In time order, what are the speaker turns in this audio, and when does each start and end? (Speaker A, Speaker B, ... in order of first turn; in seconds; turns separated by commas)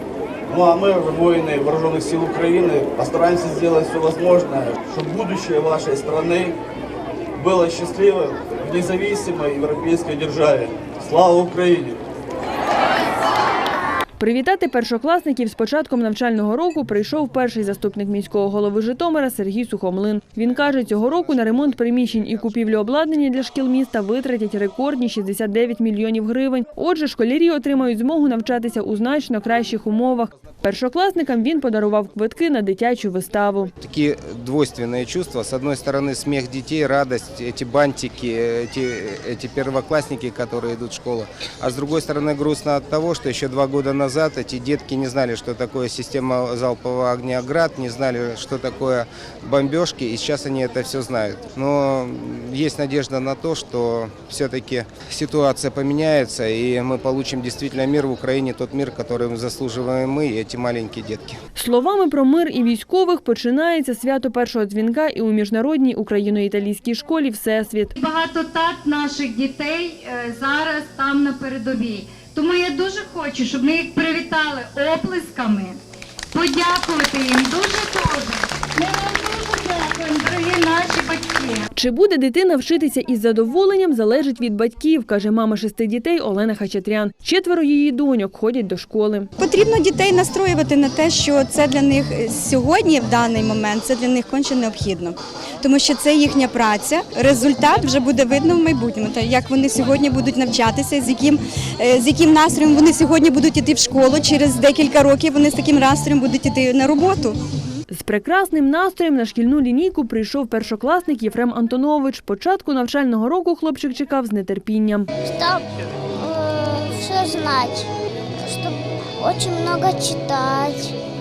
Speaker A: 0.5-6.6, Speaker A: 7.4-12.0, Speaker B: 14.2-33.7, Speaker C: 33.8-61.4, Speaker B: 61.6-67.9, Speaker D: 68.0-75.8, Speaker D: 76.3-81.7, Speaker B: 81.8-89.3, Speaker E: 89.4-107.4, Speaker B: 107.9-115.1, Speaker F: 115.2-117.9, Speaker F: 118.4-121.0